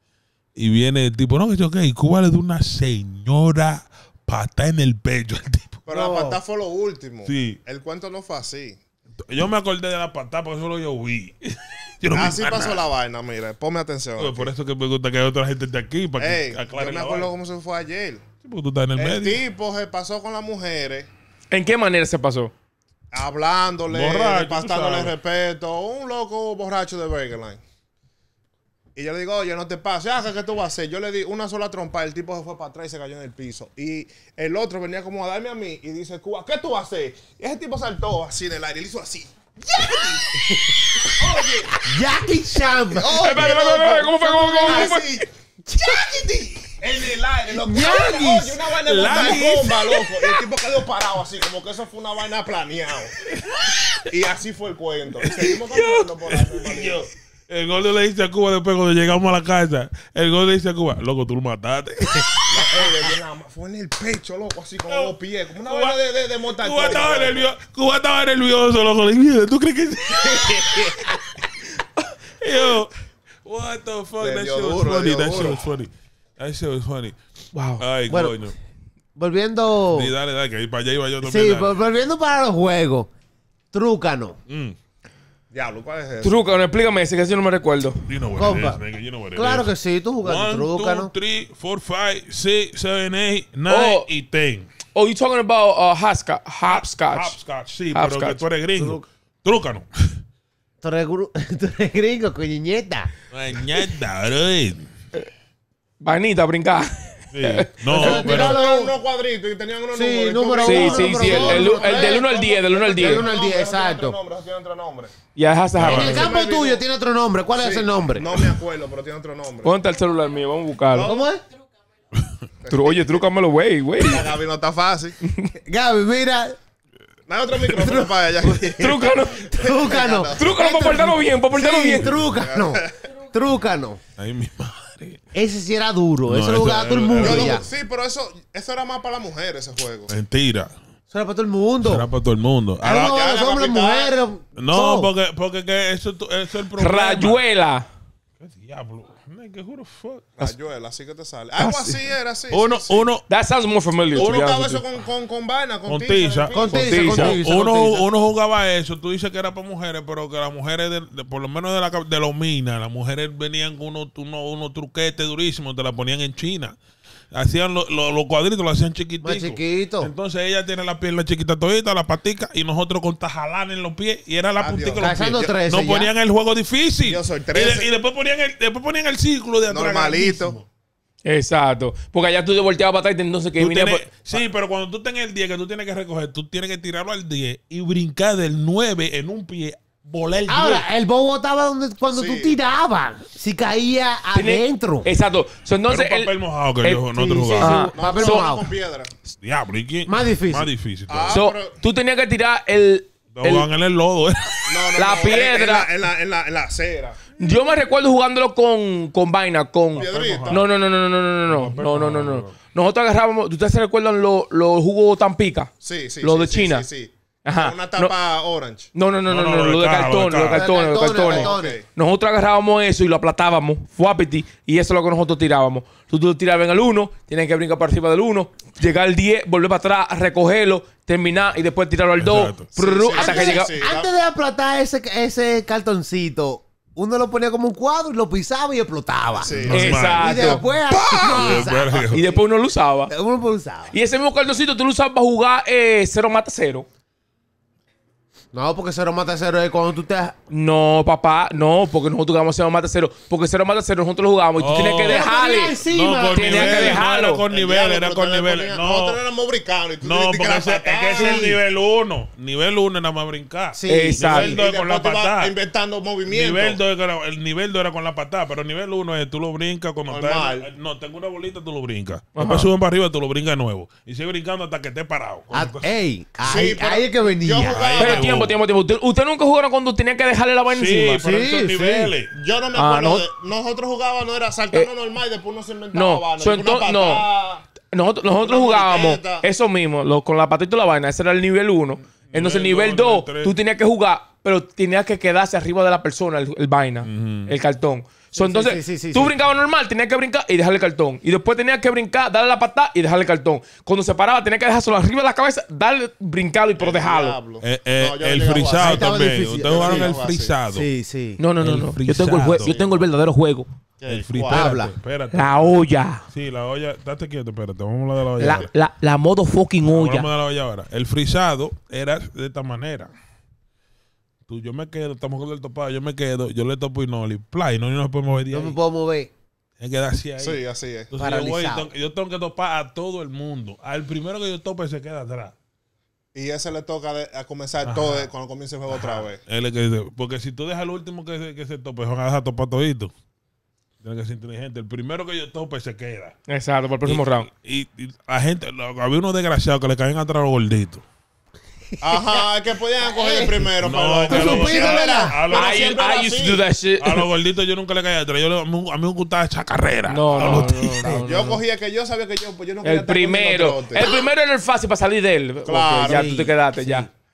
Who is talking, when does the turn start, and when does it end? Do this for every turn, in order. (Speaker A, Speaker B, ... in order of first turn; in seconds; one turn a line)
Speaker A: 0.6-5.8
Speaker B: 5.8-8.8
Speaker C: 5.9-6.4
Speaker A: 7.2-7.6
Speaker A: 9.3-12.8
Speaker B: 12.1-14.5
Speaker A: 14.2-17.3
Speaker B: 16.2-18.2
Speaker A: 18.4-19.4
Speaker B: 19.0-21.1
Speaker D: 21.5-22.5
Speaker B: 23.1-27.6
Speaker A: 23.9-25.1
Speaker B: 28.9-40.3
Speaker C: 40.3-40.8
Speaker B: 41.1-41.8
Speaker C: 41.8-43.6
Speaker B: 42.9-45.2
Speaker D: 43.2-45.2
Speaker C: 44.7-44.9
Speaker C: 45.7-46.5
Speaker B: 46.7-53.1
Speaker C: 47.5-48.6
Speaker A: 48.8-50.0
Speaker B: 54.0-57.1
Speaker A: 55.2-63.1
Speaker B: 62.5-67.5
Speaker A: 64.9-66.0
Speaker A: 66.5-71.2
Speaker B: 70.2-71.2
Speaker A: 72.4-72.9
Speaker A: 73.4-77.2
Speaker B: 74.2-75.7
Speaker D: 77.5-77.8
Speaker A: 77.8-78.5
Speaker C: 78.1-78.4
Speaker C: 79.2-80.1
Speaker A: 79.9-81.7
Speaker C: 81.2-83.1
Speaker C: 83.7-84.3
Speaker A: 84.5-84.8
Speaker B: 85.5-86.5
Speaker D: 86.2-88.1
Speaker A: 88.1-89.7
Speaker C: 88.3-88.8
Speaker C: 89.3-91.1
Speaker A: 90.2-94.7
Speaker D: 93.7-94.0
Speaker D: 94.9-97.3
Speaker A: 96.7-100.2
Speaker D: 97.9-98.4
Speaker C: 98.8-99.0
Speaker C: 100.8-103.1
Speaker A: 103.3-104.8
Speaker D: 106.0-108.2
Speaker A: 107.3-108.6
Speaker C: 107.9-108.9
Speaker B: 107.9-115.1
Speaker C: 109.9-112.3
Speaker D: 110.6-113.3
Speaker C: 112.9-114.2
Speaker D: 115.3-116.3
Speaker A: 115.8-116.2
Speaker C: 115.8-118.4
Speaker B: 115.9-116.8
Speaker B: 117.5-119.7
Speaker D: 119.6-121.1
Speaker B: 120.9-121.3
Speaker C: 121.0-121.4
Speaker B: 122.6-123.2
Speaker D: 122.7-124.3
Speaker B: 124.0-125.2
Speaker C: 125.5-126.6
Speaker B: 127.3-130.7
Speaker C: 127.8-128.1
Speaker D: 128.8-129.5
Speaker C: 129.3-134.0
Speaker D: 130.4-132.1
Speaker A: 132.0-132.3
Speaker B: 132.4-133.0
Speaker A: 134.2-135.2
Speaker C: 135.3-137.7
Speaker A: 136.2-137.6
Speaker B: 137.1-140.1
Speaker A: 140.1-140.7
Speaker C: 141.1-142.0
Speaker A: 141.8-142.9
Speaker C: 142.8-145.1
Speaker B: 142.8-144.2
Speaker A: 144.6-147.4
Speaker D: 146.8-147.8
Speaker A: 148.4-150.5
Speaker B: 150.4-153.0
Speaker D: 151.6-152.0
Speaker A: 152.5-153.2
Speaker D: 153.3-154.8
Speaker B: 154.1-156.9
Speaker A: 154.2-154.4
Speaker A: 155.8-166.7
Speaker C: 156.5-158.1
Speaker D: 156.8-157.4
Speaker A: 167.3-180.7
Speaker C: 169.2-170.1
Speaker B: 174.6-175.2
Speaker C: 174.9-176.1
Speaker B: 177.0-177.9
Speaker B: 179.7-180.6
Speaker D: 181.2-184.1
Speaker A: 183.6-190.8
Speaker C: 190.5-195.1
Speaker B: 192.1-192.6
Speaker D: 194.3-197.1
Speaker A: 195.9-197.9
Speaker C: 197.1-198.7
Speaker D: 197.6-198.5
Speaker B: 197.9-199.1
Speaker A: 199.4-201.4
Speaker C: 200.1-200.7
Speaker B: 201.1-201.8
Speaker D: 201.3-203.7
Speaker A: 203.3-204.9
Speaker B: 204.7-207.2
Speaker D: 204.9-205.9
Speaker D: 207.4-215.7
Speaker B: 209.9-210.6
Speaker A: 209.9-210.7
Speaker A: 211.5-212.5
Speaker B: 215.8-218.9
Speaker D: 216.2-216.8
Speaker D: 217.4-218.1
Speaker D: 218.9-233.7
Speaker A: 219.3-220.7
Speaker C: 220.5-221.8
Speaker B: 221.2-221.8
Speaker A: 232.2-232.7
Speaker B: 232.7-234.1
Speaker C: 233.1-242.4
Speaker B: 239.4-240.0
Speaker A: 239.5-242.2
Speaker D: 239.7-240.6
Speaker B: 241.0-241.7
Speaker D: 242.1-243.1
Speaker C: 243.1-243.9
Speaker D: 243.9-246.9
Speaker C: 248.5-250.3
Speaker D: 250.5-255.7
Speaker A: 254.6-259.2
Speaker C: 254.7-257.0
Speaker D: 256.3-257.4
Speaker B: 257.5-261.5
Speaker A: 260.0-265.5
Speaker C: 261.1-261.6
Speaker C: 263.8-264.4
Speaker D: 263.9-264.5
Speaker B: 264.3-266.8
Speaker A: 266.2-275.9
Speaker B: 270.1-270.7
Speaker D: 272.4-272.7
Speaker C: 275.5-277.8
Speaker B: 276.4-278.3
Speaker A: 277.7-278.5
Speaker D: 278.0-281.2
Speaker A: 280.7-282.3
Speaker C: 281.2-282.1
Speaker B: 282.3-287.6
Speaker D: 282.7-283.2
Speaker D: 285.9-287.2
Speaker D: 287.9-307.4
Speaker B: 288.3-289.4
Speaker A: 292.3-293.5
Speaker A: 297.0-297.5
Speaker C: 298.3-299.4
Speaker B: 306.8-310.5
Speaker A: 307.6-310.9
Speaker C: 308.8-310.1
Speaker C: 310.7-311.4
Speaker D: 311.4-313.7
Speaker A: 311.6-313.1
Speaker B: 314.0-314.7
Speaker A: 314.1-318.7
Speaker C: 314.5-314.9
Speaker D: 315.3-316.2
Speaker D: 318.4-320.3
Speaker A: 319.8-323.1
Speaker A: 324.5-328.8
Speaker C: 328.5-329.3
Speaker A: 329.8-335.5
Speaker B: 330.4-331.1
Speaker C: 331.1-331.9
Speaker B: 336.3-339.4
Speaker A: 337.8-338.3
Speaker A: 338.9-343.1
Speaker A: 344.0-346.4
Speaker D: 346.5-347.5
Speaker A: 347.0-351.0
Speaker C: 351.9-352.4
Speaker B: 352.0-356.6
Speaker C: 353.0-353.7
Speaker A: 353.8-356.0
Speaker C: 354.3-355.4
Speaker D: 355.5-357.2
Speaker A: 357.0-361.2
Speaker D: 360.1-361.6
Speaker B: 360.4-360.6
Speaker C: 360.4-361.2
Speaker B: 361.2-364.0
Speaker D: 362.8-367.1
Speaker B: 365.6-366.4
Speaker C: 366.1-367.1